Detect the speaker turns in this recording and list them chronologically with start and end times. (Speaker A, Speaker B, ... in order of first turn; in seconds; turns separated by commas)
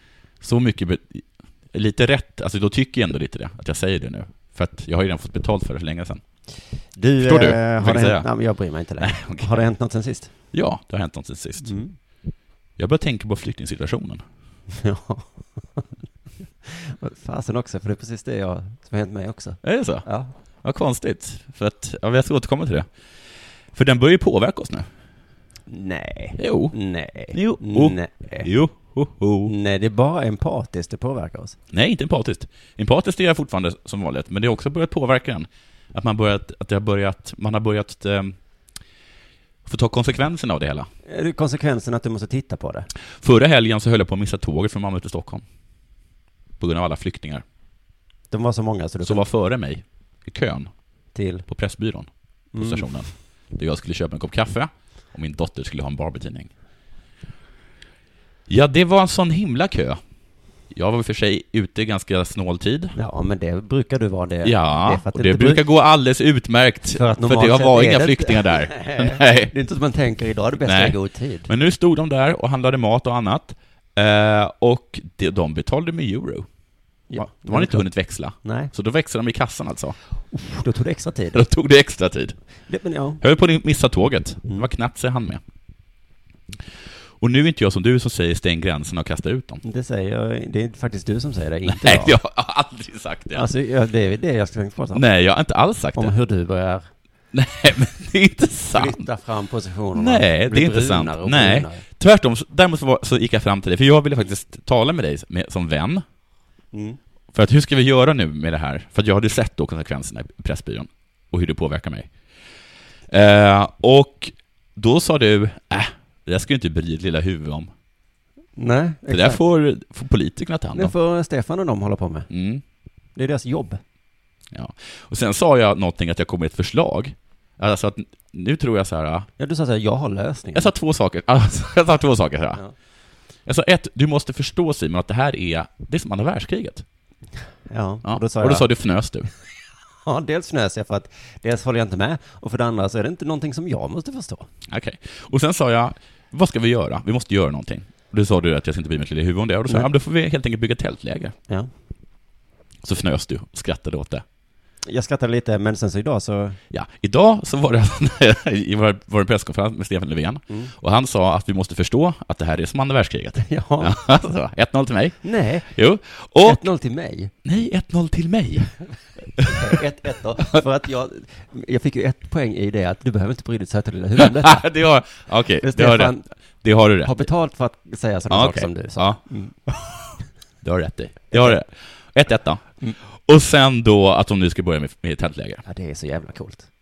Speaker A: 0.4-6.2, Speaker B: 7.0-10.3, Speaker A: 7.2-8.3, Speaker A: 9.0-9.6, Speaker A: 10.5-11.8, Speaker B: 11.6-11.9, Speaker A: 12.8-14.2, Speaker B: 14.7-15.8, Speaker B: 16.6-20.3, Speaker A: 19.6-20.1, Speaker A: 20.6-22.9, Speaker A: 23.7-24.9, Speaker B: 25.7-28.5, Speaker A: 26.4-26.8, Speaker A: 27.3-29.5, Speaker B: 29.4-31.6, Speaker A: 31.7-38.4, Speaker A: 39.7-40.9, Speaker B: 41.1-42.9, Speaker A: 43.2-45.4, Speaker A: 46.6-47.4, Speaker B: 48.3-49.2, Speaker A: 49.0-50.7, Speaker B: 51.1-51.5, Speaker A: 51.5-56.5, Speaker B: 52.5-53.0, Speaker A: 58.5-60.0, Speaker A: 60.7-63.0, Speaker B: 63.0-65.6, Speaker A: 64.4-69.5, Speaker B: 66.9-71.5, Speaker A: 70.7-76.5, Speaker B: 77.1-77.9, Speaker A: 77.2-80.0, Speaker B: 78.4-78.7, Speaker B: 80.3-81.4, Speaker A: 81.3-82.4, Speaker B: 82.7-83.2, Speaker A: 83.2-85.4, Speaker A: 87.2-89.6, Speaker B: 89.6-92.2, Speaker A: 91.7-93.5, Speaker B: 93.3-95.0, Speaker A: 95.0-96.1, Speaker B: 96.0-96.9, Speaker A: 97.3-99.0, Speaker B: 98.7-101.8, Speaker A: 99.9-106.0, Speaker B: 106.7-107.0, Speaker A: 107.3-112.1, Speaker A: 113.1-117.7, Speaker B: 118.6-119.4, Speaker A: 119.1-120.9, Speaker B: 120.7-122.3, Speaker A: 122.3-122.6, Speaker B: 123.2-123.8, Speaker A: 124.5-129.3, Speaker B: 129.4-130.7, Speaker A: 130.5-132.6, Speaker A: 133.5-136.8, Speaker B: 137.7-138.7, Speaker A: 138.1-139.3, Speaker B: 140.1-144.5, Speaker A: 144.7-151.3, Speaker A: 152.8-154.2, Speaker B: 154.9-156.6, Speaker A: 156.7-166.6, Speaker B: 163.4-164.0, Speaker B: 165.2-165.7, Speaker B: 166.4-167.3, Speaker A: 167.4-168.7, Speaker A: 169.4-169.8, Speaker B: 169.4-174.7, Speaker A: 174.2-177.3, Speaker B: 175.6-176.3, Speaker B: 177.0-179.6, Speaker A: 178.3-179.2, Speaker A: 180.6-182.6, Speaker B: 181.3-181.6, Speaker A: 183.1-185.6, Speaker B: 185.7-186.7